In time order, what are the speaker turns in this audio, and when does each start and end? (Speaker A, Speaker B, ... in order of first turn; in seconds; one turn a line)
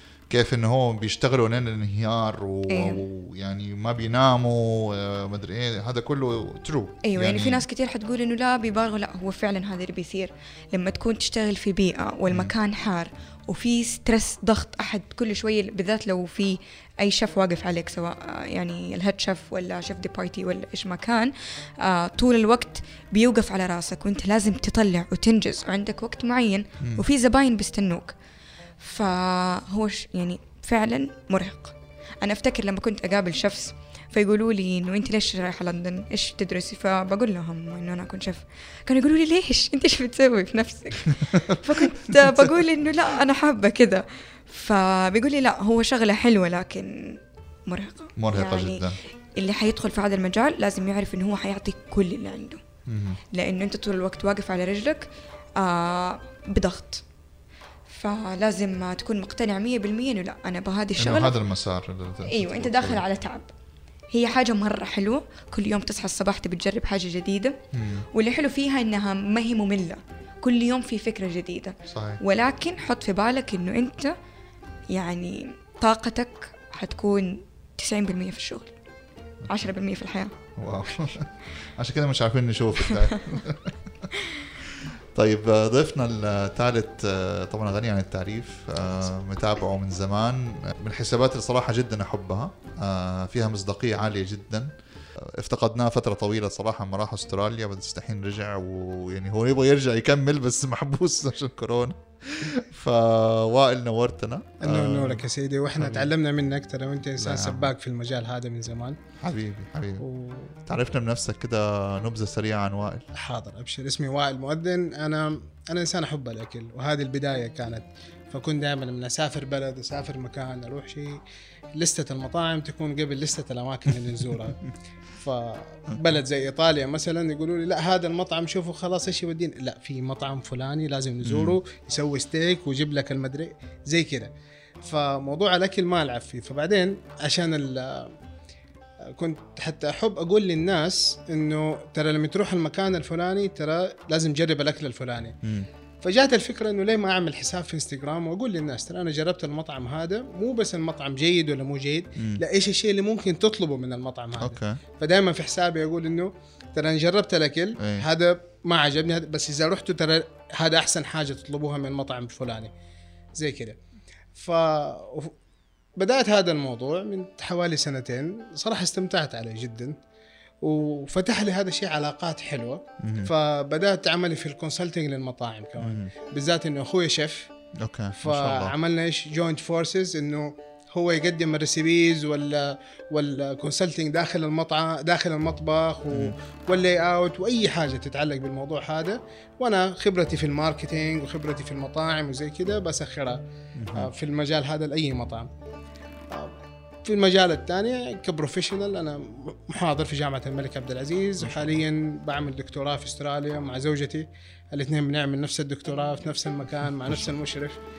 Speaker A: 0.3-7.7
Speaker B: 2.7-3.0
Speaker B: 7.0-28.1
Speaker B: 28.8-48.9
Speaker A: 41.2-42.4
Speaker A: 48.2-49.0
Speaker B: 49.4-52.6
Speaker A: 52.9-53.2
Speaker B: 53.3-57.0
Speaker B: 57.9-61.4
Speaker A: 61.0-63.0
Speaker B: 62.2-63.5
Speaker B: 64.1-67.6
Speaker A: 67.7-68.1
Speaker B: 68.1-74.1
Speaker A: 71.9-72.2
Speaker B: 74.9-78.7
Speaker B: 79.5-80.3
Speaker A: 80.6-83.8
Speaker B: 82.8-83.2
Speaker A: 85.2-94.7
Speaker A: 95.4-105.2
Speaker C: 104.6-109.0
Speaker A: 105.8-106.1
Speaker A: 107.2-107.7
Speaker A: 109.2-110.0
Speaker C: 110.0-110.5
Speaker A: 110.7-113.0
Speaker C: 113.1-121.2
Speaker C: 121.8-124.6
Speaker C: 125.2-134.3
Speaker A: 131.2-131.6
Speaker C: 134.8-138.1
Speaker C: 139.2-145.4
Speaker C: 146.0-162.7
Speaker A: 154.4-154.8
Speaker A: 157.8-158.1
Speaker C: 163.4-163.8
Speaker C: 164.3-165.3
Speaker C: 166.0-170.0
Speaker C: 170.6-177.5
Speaker A: 173.0-173.3
Speaker A: 175.8-176.1
Speaker A: 177.8-178.8
Speaker C: 178.2-193.4
Speaker A: 193.8-194.1
Speaker C: 193.9-195.5
Speaker C: 197.1-207.8
Speaker A: 207.1-207.3